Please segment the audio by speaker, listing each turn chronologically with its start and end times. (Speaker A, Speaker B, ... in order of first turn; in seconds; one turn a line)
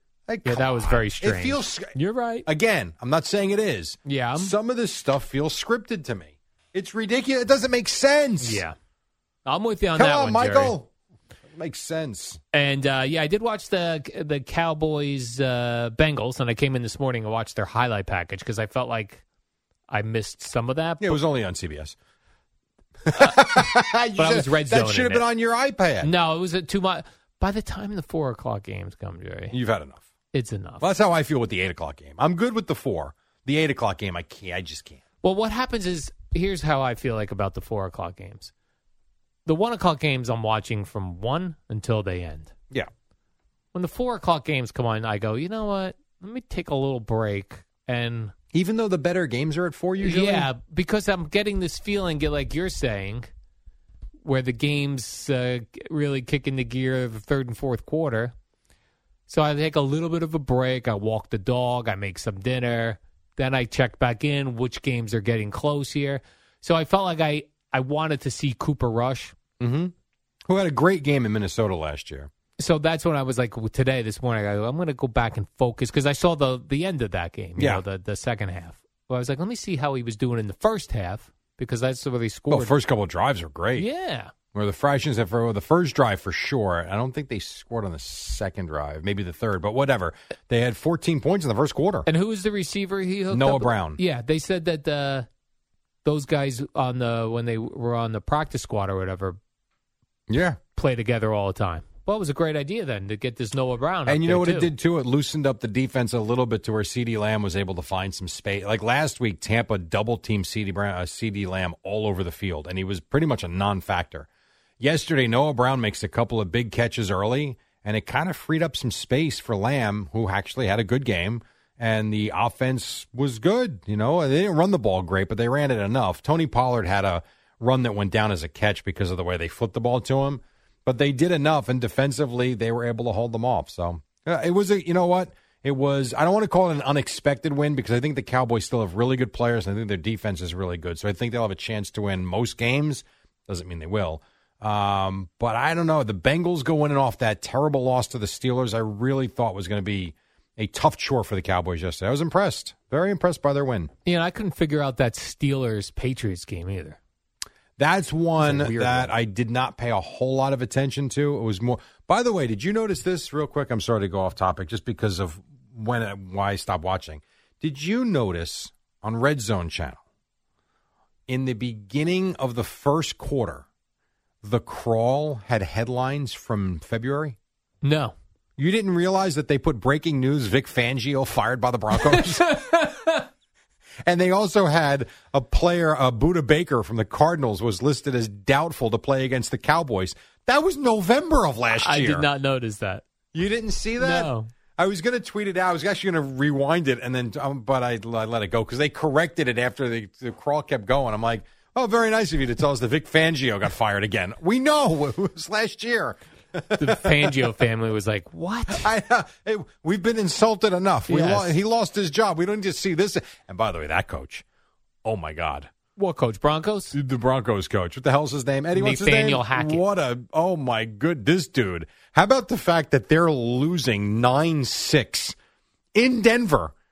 Speaker A: 0.3-8.6
Speaker B: 0.4-2.5
Speaker B: 4.0-4.5
Speaker B: 8.4-8.7
Speaker B: 9.4-10.8
Speaker A: 9.9-10.9
Speaker A: 11.5-12.4
Speaker B: 12.5-19.2
Speaker B: 19.9-21.2
Speaker A: 21.0-21.9
Speaker A: 23.1-26.1
Speaker B: 23.2-25.2
Speaker B: 26.0-29.6
Speaker A: 29.5-30.0
Speaker B: 30.3-30.8
Speaker A: 30.8-35.0
Speaker B: 35.2-38.5
Speaker B: 39.4-42.5
Speaker B: 43.7-48.3
Speaker A: 48.5-50.5
Speaker B: 50.0-53.3
Speaker B: 54.2-58.3
Speaker B: 59.3-69.3
Speaker A: 69.6-69.9
Speaker A: 70.5-72.3
Speaker B: 72.6-82.8
Speaker A: 77.6-77.8
Speaker A: 82.5-83.9
Speaker B: 83.7-84.3
Speaker A: 84.5-92.1
Speaker B: 92.0-95.3
Speaker A: 93.3-94.0
Speaker B: 96.0-99.4
Speaker A: 100.3-100.6
Speaker B: 100.7-104.7
Speaker A: 104.0-114.3
Speaker A: 114.8-153.9
Speaker B: 154.0-157.0
Speaker A: 157.8-170.0
Speaker B: 158.4-159.1
Speaker A: 171.3-173.7
Speaker A: 174.4-177.3
Speaker B: 177.8-178.1
Speaker A: 178.6-182.6
Speaker B: 182.0-183.2
Speaker A: 184.0-192.3
Speaker B: 191.7-193.0
Speaker A: 193.3-207.5
Speaker B: 194.0-194.5
Speaker B: 206.8-208.9
Speaker A: 208.7-214.4
Speaker B: 211.1-211.6
Speaker A: 215.0-215.7
Speaker B: 215.9-216.9
Speaker A: 216.9-225.3
Speaker B: 218.7-219.8
Speaker A: 225.9-226.7